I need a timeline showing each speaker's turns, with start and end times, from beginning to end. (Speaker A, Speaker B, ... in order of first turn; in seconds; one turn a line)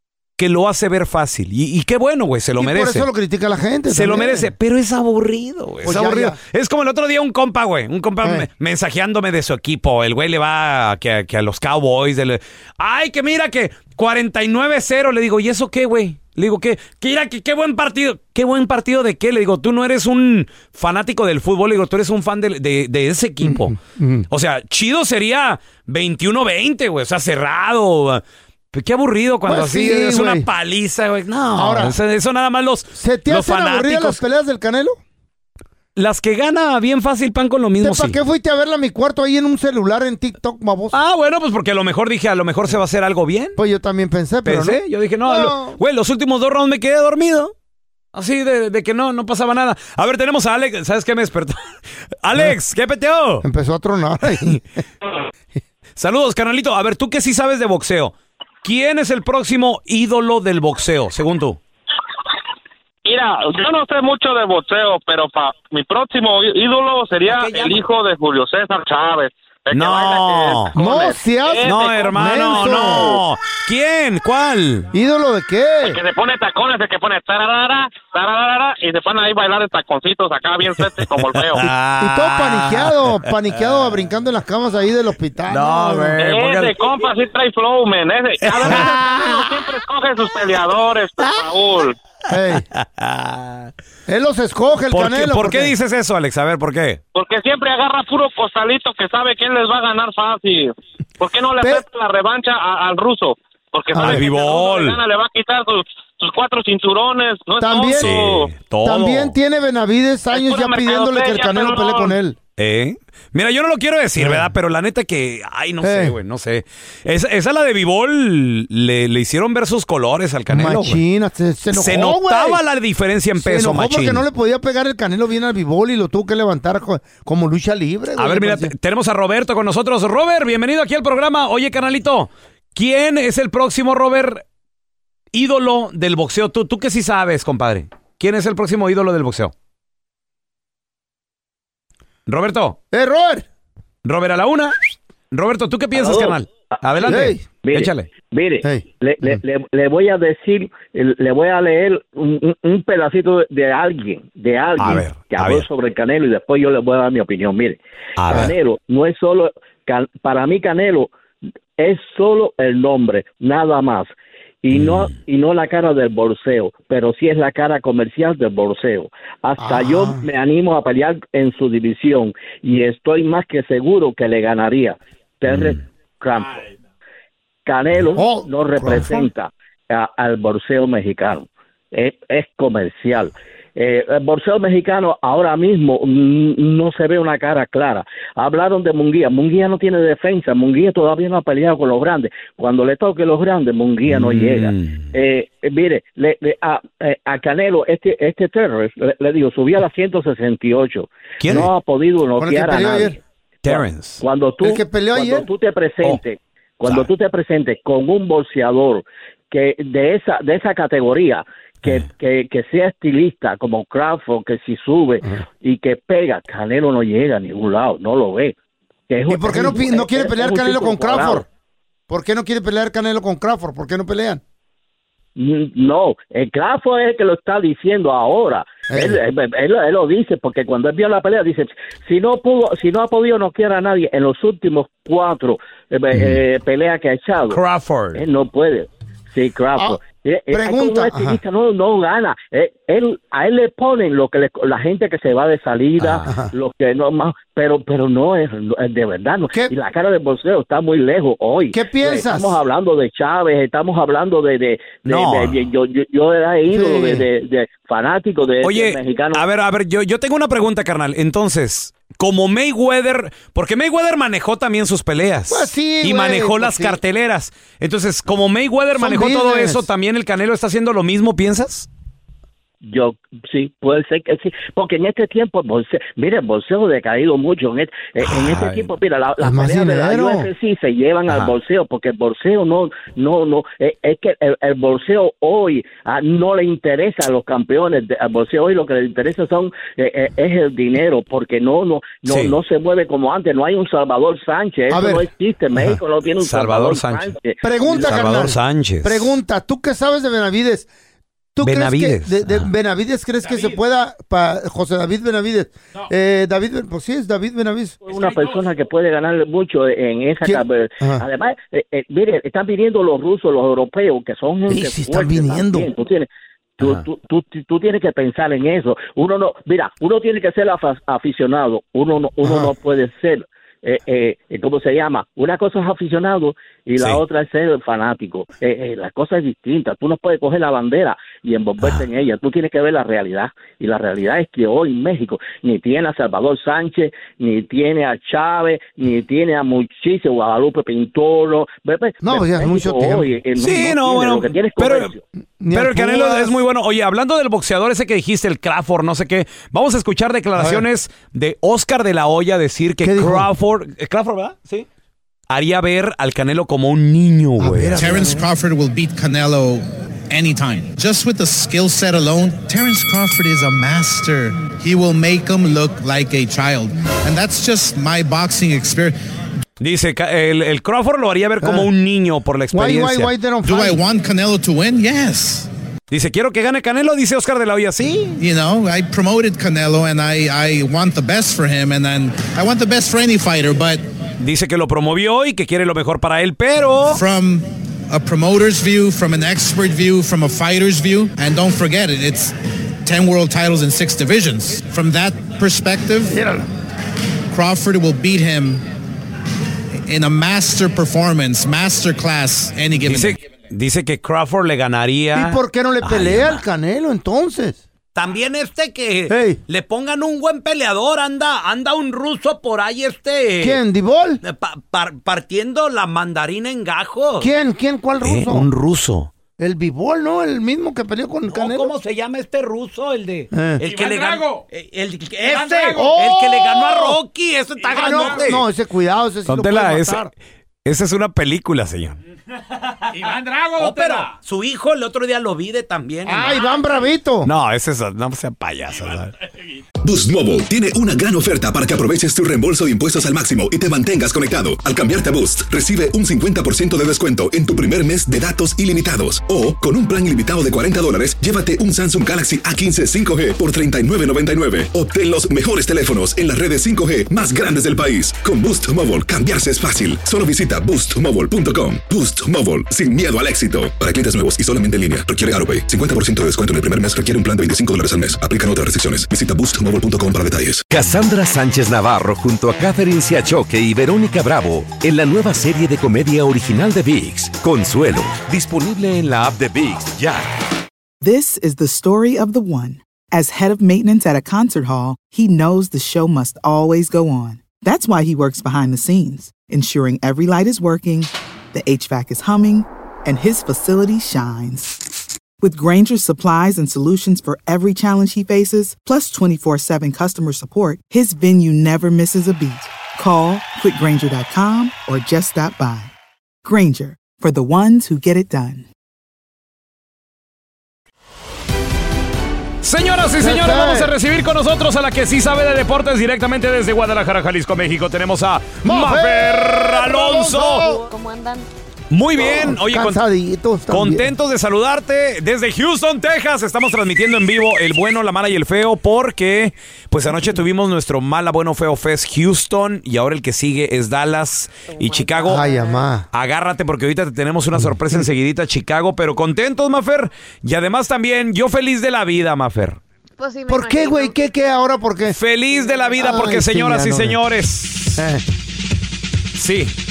Speaker A: 0.4-3.1
Speaker B: 2.6-4.5
Speaker A: 3.9-23.8
Speaker B: 5.8-6.4
Speaker B: 23.4-24.3
Speaker A: 24.3-28.2
Speaker A: 28.7-34.2
Speaker B: 29.5-30.5
Speaker B: 31.6-32.0
Speaker B: 33.0-35.0
Speaker A: 36.0-38.2
Speaker B: 37.8-41.0
Speaker A: 40.9-43.6
Speaker B: 43.6-45.8
Speaker A: 44.4-47.5
Speaker A: 48.1-53.5
Speaker B: 53.4-54.6
Speaker A: 56.0-61.6
Speaker C: 63.1-73.2
Speaker A: 67.2-67.9
Speaker A: 69.7-70.8
Speaker B: 70.8-73.2
Speaker A: 71.6-74.9
Speaker B: 74.9-76.0
Speaker C: 75.9-81.6
Speaker A: 80.8-83.7
Speaker B: 81.6-86.2
Speaker A: 85.5-86.9
Speaker C: 86.2-92.0
Speaker A: 88.4-89.8
Speaker B: 88.6-88.9
Speaker A: 91.2-91.9
Speaker B: 92.3-92.7
Speaker A: 92.7-93.7
Speaker B: 94.1-95.7
Speaker A: 94.9-97.0
Speaker C: 97.2-108.5
Speaker B: 101.6-101.8
Speaker A: 104.0-105.0
Speaker B: 104.0-104.2
Speaker B: 107.6-112.4
Speaker A: 107.9-109.3
Speaker C: 110.3-112.1
Speaker A: 112.6-121.0
Speaker B: 114.2-114.5
Speaker B: 115.8-116.2
Speaker B: 120.5-122.6
Speaker A: 121.7-124.2
Speaker B: 123.4-128.7
Speaker A: 128.2-134.4
Speaker A: 135.3-139.5
Speaker A: 142.3-142.8
Speaker B: 142.9-143.4
Speaker A: 144.1-144.8
Speaker A: 145.3-148.1
Speaker D: 145.9-146.4
Speaker D: 147.0-161.1
Speaker B: 147.0-147.4
Speaker B: 148.6-149.3
Speaker A: 154.8-155.7
Speaker A: 158.2-158.6
Speaker D: 161.8-164.1
Speaker D: 164.6-176.6
Speaker A: 164.7-165.1
Speaker B: 169.6-170.3
Speaker E: 176.4-176.7
Speaker D: 177.7-218.6
Speaker B: 178.2-179.3
Speaker A: 194.1-195.1
Speaker A: 201.4-201.7
Speaker B: 202.4-203.2
Speaker A: 203.7-204.2
Speaker B: 204.6-205.5
Speaker D: 219.1-221.4
Speaker B: 219.3-221.4
Speaker B: 222.1-224.4
Speaker D: 225.4-237.6
Speaker B: 228.9-229.2
Speaker A: 237.5-238.2
Speaker D: 238.2-259.5
Speaker B: 240.5-241.4
Speaker A: 246.0-246.3
Speaker B: 246.2-246.5
Speaker B: 251.7-252.6
Speaker A: 255.1-255.6
Speaker B: 256.7-257.3
Speaker A: 258.6-271.9
Speaker B: 265.5-267.0
Speaker B: 269.0-269.9
Speaker D: 272.8-298.2
Speaker A: 278.2-278.9
Speaker B: 279.4-280.5
Speaker A: 281.3-281.6
Speaker A: 292.3-292.6
Speaker B: 294.9-296.0
Speaker A: 296.4-297.3
Speaker B: 297.6-300.9
Speaker A: 297.9-299.4
Speaker B: 301.6-308.0
Speaker A: 301.6-302.7
Speaker E: 303.4-303.8
Speaker D: 308.1-316.3
Speaker E: 308.1-308.7
Speaker B: 310.4-311.3
Speaker B: 314.7-315.9
Speaker D: 316.8-345.2
Speaker B: 322.4-322.7
Speaker B: 342.2-343.3
Speaker A: 343.6-345.1
Speaker B: 345.6-346.6
Speaker A: 345.7-354.9
Speaker B: 350.6-350.9
Speaker B: 353.0-353.5
Speaker A: 355.5-358.3
Speaker B: 357.6-358.5
Speaker F: 358.0-369.1
Speaker A: 369.8-373.3
Speaker B: 371.6-371.9
Speaker B: 372.7-374.0
Speaker F: 373.7-375.7
Speaker A: 376.1-378.4
Speaker F: 378.4-384.0
Speaker A: 384.4-387.2
Speaker F: 387.1-396.4
Speaker B: 396.3-396.7
Speaker F: 397.5-398.8
Speaker F: 400.1-403.4
Speaker A: 403.0-406.6
Speaker B: 405.4-407.8
Speaker A: 408.1-413.8
Speaker B: 409.3-409.6
Speaker B: 413.6-414.4
Speaker A: 414.4-417.5
Speaker B: 417.4-418.7
Speaker A: 418.2-419.3
Speaker B: 419.6-421.9
Speaker A: 421.5-428.6
Speaker B: 423.5-423.8
Speaker E: 423.8-424.7
Speaker E: 425.4-426.1
Speaker B: 425.9-427.2
Speaker E: 427.8-428.6
Speaker B: 427.9-430.3
Speaker A: 429.5-430.2
Speaker A: 430.9-432.2
Speaker E: 433.1-434.4
Speaker A: 433.8-436.6
Speaker B: 436.3-437.5
Speaker E: 436.5-436.8
Speaker A: 437.4-439.3
Speaker E: 438.9-439.8
Speaker G: 440.0-470.9
Speaker H: 470.9-480.5
Speaker I: 481.2-506.1
Speaker I: 506.6-508.9
Speaker A: 512.8-520.9
Speaker B: 513.4-514.1
Speaker B: 518.8-521.1
Speaker J: 520.7-521.7
Speaker A: 522.1-523.2
Speaker B: 522.4-524.3
Speaker A: 523.9-535.6
Speaker J: 534.9-536.1
Speaker B: 535.5-536.3
Speaker A: 536.3-543.0
Speaker B: 537.8-538.3
Speaker J: 543.4-544.4
Speaker B: 543.7-545.4
Speaker A: 545.3-548.2
Speaker J: 545.7-546.4
Speaker B: 546.2-547.4
Speaker B: 548.2-548.4
Speaker A: 549.5-549.9